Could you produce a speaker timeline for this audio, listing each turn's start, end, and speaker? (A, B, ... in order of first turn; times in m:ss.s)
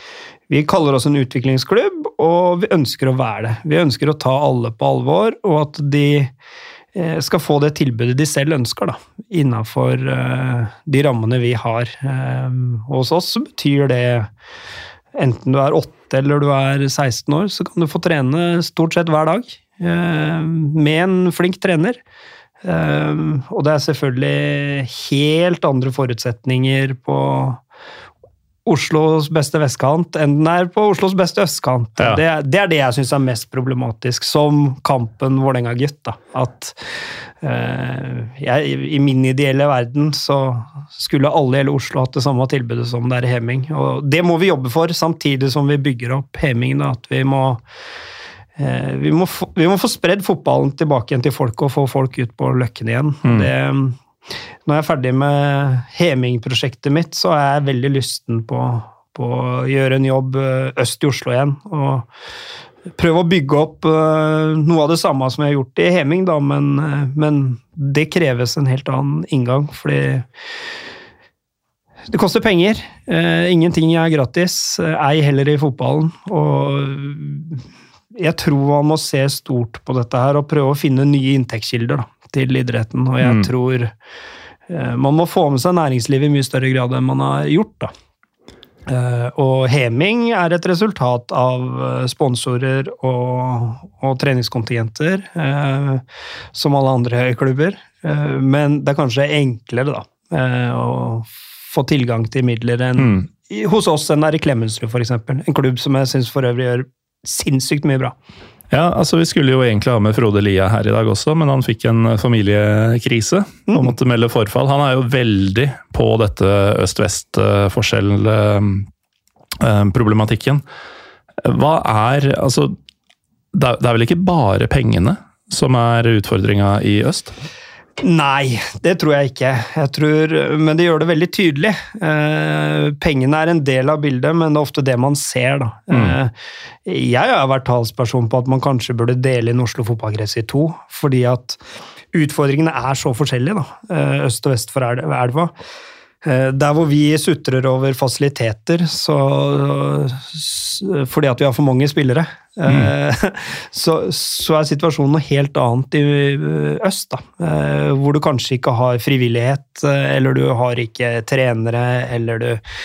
0:00.5-0:06.3 A
0:07.0-0:14.3 A
0:15.2-0:22.0 A
0:22.6-0:27.6 A
0:28.6-0:47.6 A
0:48.6-0:54.0 A
0:54.6-1:02.1 A
1:03.0-1:10.3 A
1:12.1-1:23.9 A
1:23.2-1:23.5 B
1:24.7-1:27.9 A
1:28.9-1:36.0 A
1:36.5-1:48.2 A
1:43.0-1:43.2 B
1:48.7-1:58.9 B
1:53.7-1:53.9 A
1:59.6-2:00.6 B
2:01.4-2:02.8 B
2:03.5-2:07.4 B
2:08.0-2:16.3 A
2:16.8-2:21.6 A
2:22.1-2:25.5 A
2:26.2-2:42.6 A